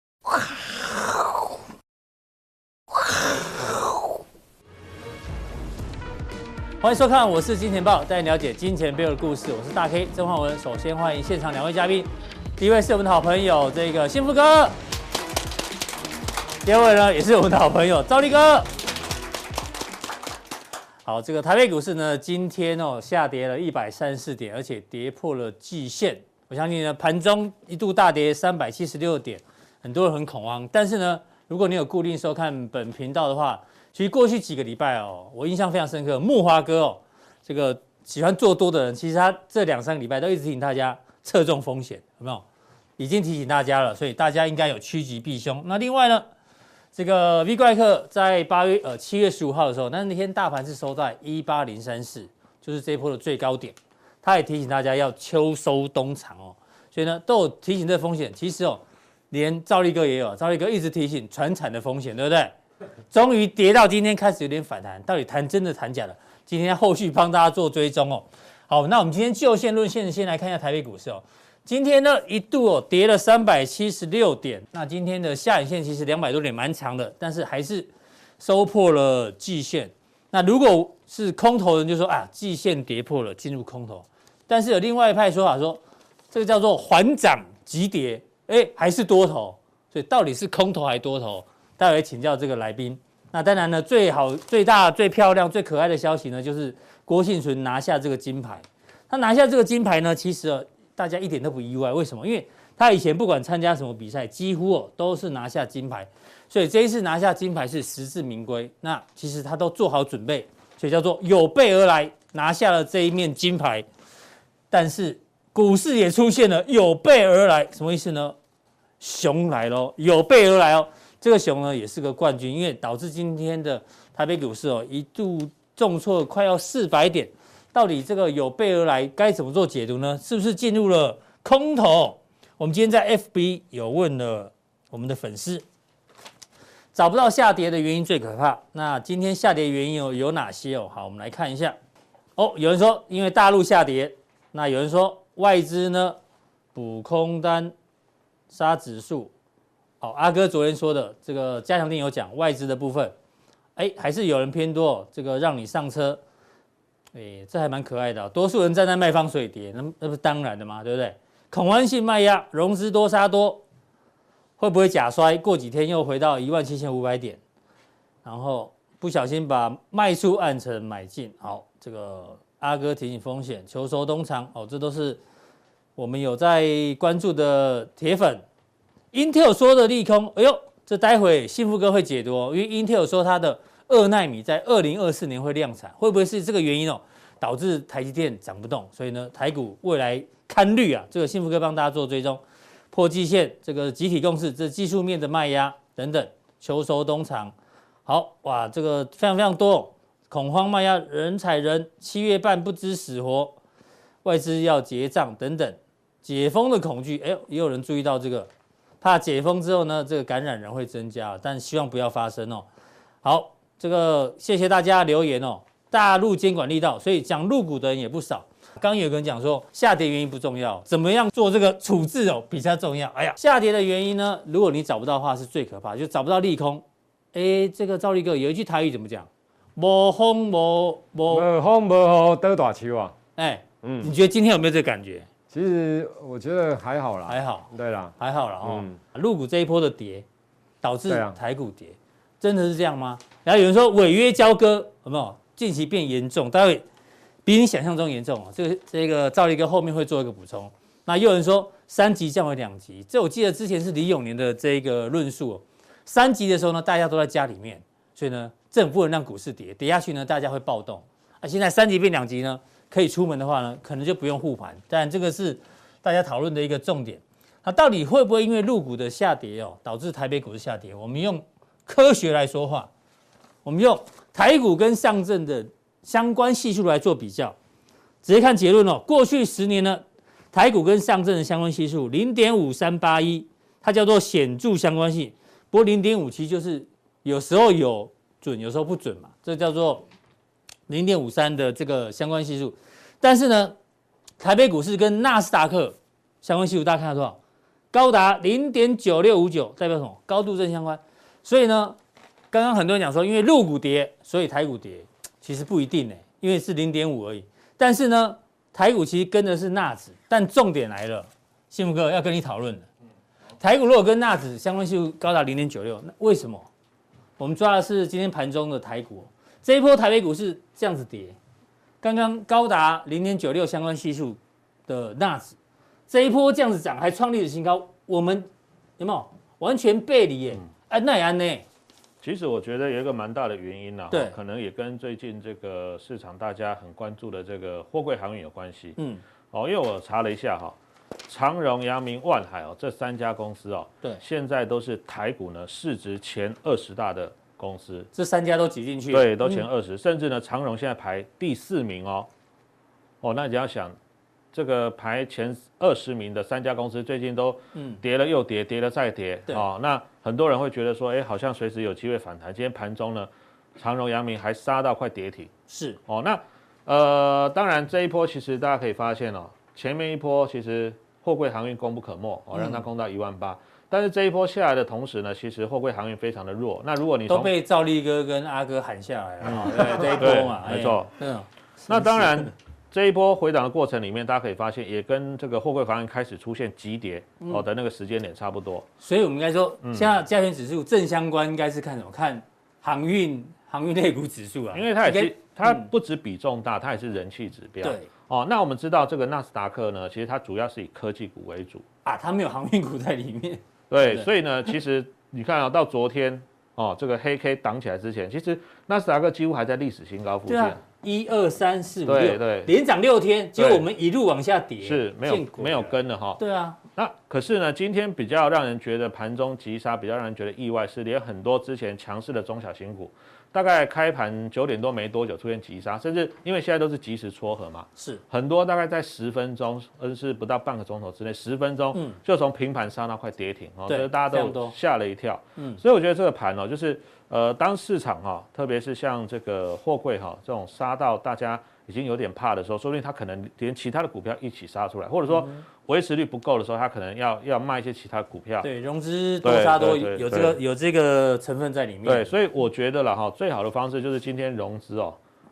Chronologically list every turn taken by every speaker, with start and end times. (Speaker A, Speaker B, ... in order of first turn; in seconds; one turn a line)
Speaker A: 6.8-14.8
Speaker A: 16.6-18.7
Speaker A: 21.1-42.5
Speaker A: 43.0-46.3
Speaker A: 47.0-62.5
Speaker A: 63.1-113.9
Speaker A: 114.7-118.4
Speaker A: 119.0-135.7
Speaker A: 136.9-141.8
Speaker A: 142.4-146.2
Speaker A: 146.7-147.7
Speaker A: 148.5-149.3
Speaker A: 150.0-153.1
Speaker A: 153.8-156.2
Speaker A: 157.1-163.6
Speaker A: 164.6-167.4
Speaker A: 168.2-175.2
Speaker A: 176.0-178.4
Speaker A: 179.1-197.5
Speaker A: 198.1-203.6
Speaker A: 204.2-208.5
Speaker A: 209.0-212.7
Speaker A: 213.2-231.5
Speaker B: 231.3-233.1
Speaker A: 233.4-235.3
Speaker B: 233.8-234.1
Speaker B: 235.5-238.9
Speaker A: 237.3-240.2
Speaker A: 240.8-246.8
Speaker B: 241.1-241.3
Speaker A: 247.4-272.9
Speaker A: 273.6-277.6
Speaker A: 278.2-280.0
Speaker A: 280.5-290.1
Speaker A: 290.9-293.8
Speaker A: 294.4-297.4
Speaker A: 297.9-302.0
Speaker A: 302.5-312.9
Speaker A: 313.6-316.7
Speaker A: 317.4-321.4
Speaker A: 322.0-325.6
Speaker A: 326.1-328.5
Speaker A: 329.0-331.6
Speaker C: 332.2-339.0
Speaker A: 334.1-334.4
Speaker A: 339.0-339.2
Speaker C: 339.5-348.1
Speaker A: 348.1-349.7
Speaker C: 349.1-352.3
Speaker C: 353.2-354.0
Speaker C: 354.5-365.5
Speaker A: 357.8-358.0
Speaker A: 365.7-366.0
Speaker C: 366.1-377.5
Speaker A: 372.6-372.8
Speaker A: 377.3-382.5
Speaker C: 379.4-381.1
Speaker C: 381.9-388.9
Speaker A: 389.0-395.9
Speaker C: 389.8-390.1
Speaker C: 394.7-401.9
Speaker A: 397.8-398.1
Speaker A: 402.1-404.3
Speaker C: 403.9-410.8
Speaker A: 410.5-416.8
Speaker C: 412.1-412.7
Speaker C: 413.6-413.9
Speaker C: 414.8-416.4
Speaker C: 417.0-448.7
Speaker A: 431.9-432.2
Speaker A: 433.9-434.8
Speaker A: 448.6-452.3
Speaker C: 449.4-450.6
Speaker C: 452.1-455.2